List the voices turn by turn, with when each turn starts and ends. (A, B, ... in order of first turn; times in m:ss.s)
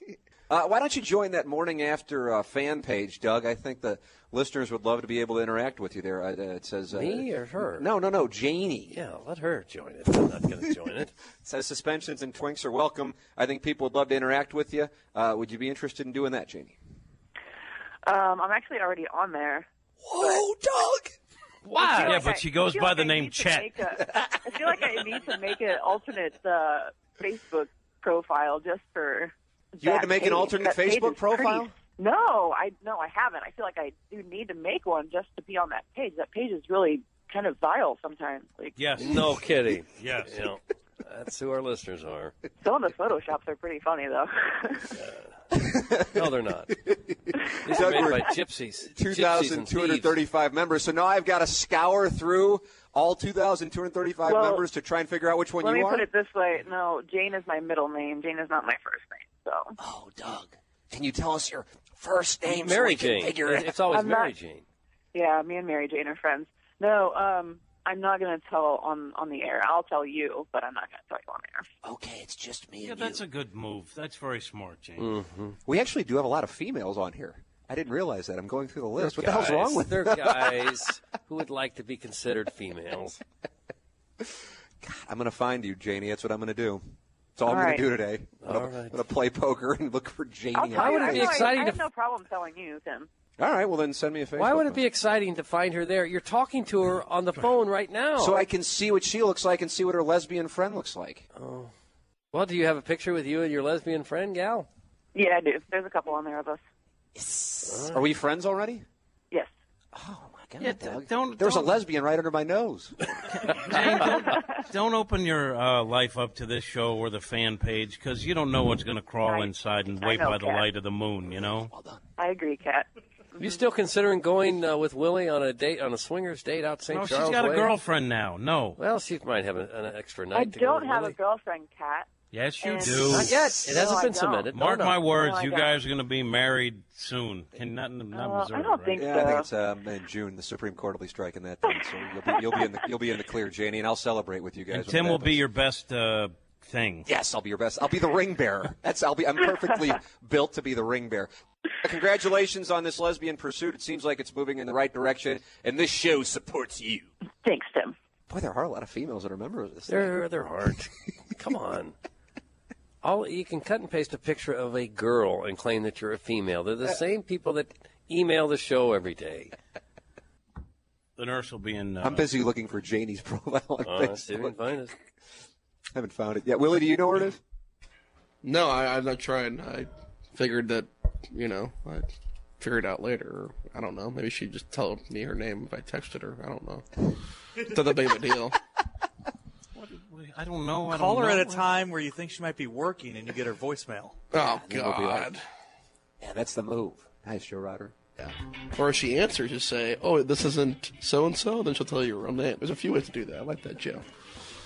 0:00.5-0:09.0 A
0:06.9-0:07.9 B
0:08.9-0:11.1 B
0:11.4-0:16.8 A
0:18.0-0:19.7 C
0:20.0-0:21.1 A
0:21.6-0:22.2 B
0:21.8-0:38.8 C
0:21.9-0:23.7 D
0:24.1-0:24.6 A
0:29.8-0:31.7 A
0:38.8-0:39.4 D
0:39.0-0:42.3 B
0:40.0-0:40.4 D
0:42.6-0:44.9 C
0:44.9-0:46.8 B
0:45.6-0:46.2 A
0:46.9-0:48.3 A
0:47.6-0:50.2 B
0:48.9-0:56.1 A
0:54.3-0:54.6 C
0:55.6-0:59.8 C
0:59.8-1:03.8 A
1:02.4-1:04.6 B
1:03.9-1:04.3 C
1:05.1-1:11.6 C
1:11.8-1:13.2 A
1:12.8-1:15.1 D
1:15.0-1:15.6 B
1:15.6-1:20.7 A
1:19.0-1:23.2 B
1:24.2-1:26.8 A
1:27.4-1:31.5 A
1:27.5-1:27.8 C
1:28.4-1:29.0 B
1:30.5-1:33.1 C
1:30.8-1:31.8 B
1:33.4-1:34.8 A
1:34.4-1:38.4 B
1:38.2-1:41.3 A
1:41.4-1:41.7 B
1:42.3-1:44.7 B
1:45.1-1:46.6 C
1:47.1-1:48.8 A
1:47.7-1:48.0 B
1:49.9-1:53.1 A
1:50.6-1:51.8 D
1:53.3-2:01.7 D
1:54.1-1:54.5 C
1:59.2-2:00.6 C
2:01.7-2:02.0 A
2:02.2-2:02.8 C
2:03.4-2:07.7 B
2:06.9-2:08.8 D
2:08.8-2:11.2 B
2:10.3-2:12.1 C
2:12.3-2:13.4 D
2:12.6-2:14.5 C
2:12.8-2:15.0 B
2:14.5-2:19.2 D
2:15.1-2:15.8 C
2:18.1-2:19.5 C
2:19.0-2:25.4 A
2:24.7-2:27.1 D
2:27.1-2:31.3 A
2:31.8-2:37.1 A
2:37.4-2:37.9 C
2:38.3-2:40.2 A
2:39.9-2:41.9 B
2:43.0-2:49.5 B
2:51.2-2:52.3 D
2:52.0-2:54.6 A
2:53.8-2:54.9 B
2:55.9-2:57.4 A
2:58.4-3:06.8 E
3:07.6-3:08.6 E
3:09.7-3:11.8 D
3:10.9-3:14.1 F
3:14.3-3:15.4 E
3:14.4-3:15.3 A
3:16.2-3:17.9 A
3:18.2-3:24.0 E